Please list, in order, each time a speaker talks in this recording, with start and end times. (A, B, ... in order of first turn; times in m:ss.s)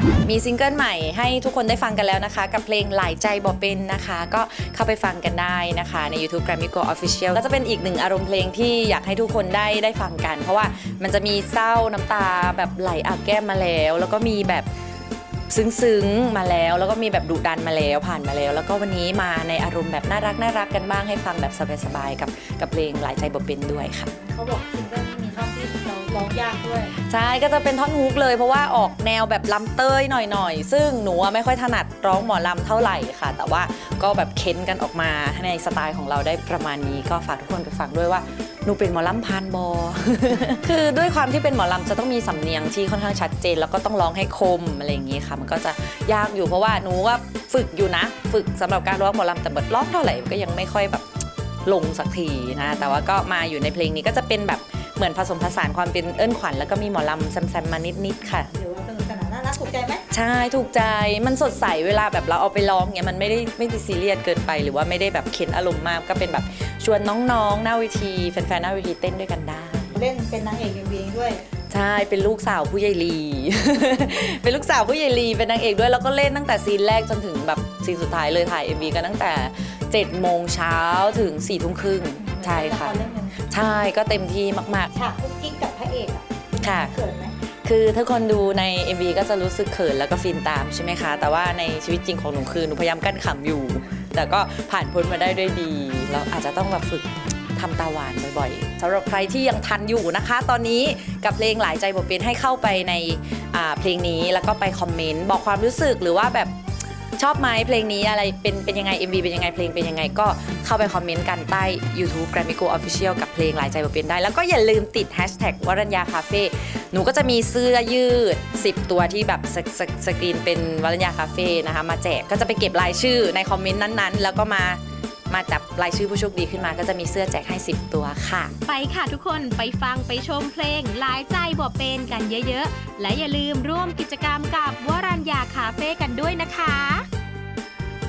0:00.2-0:14.7 A
0:15.5-0:24.1 A
0:24.1-0:26.9 B
0:26.9-0:58.5 A
0:58.4-1:00.0 B
1:00.1-1:09.9 A
1:09.9-1:11.4 B
1:11.7-1:24.9 A
1:22.2-1:23.4 B
1:24.9-1:27.4 B
1:26.6-1:26.9 A
1:27.4-1:46.5 A
1:47.2-2:08.5 A
2:08.6-2:17.1 C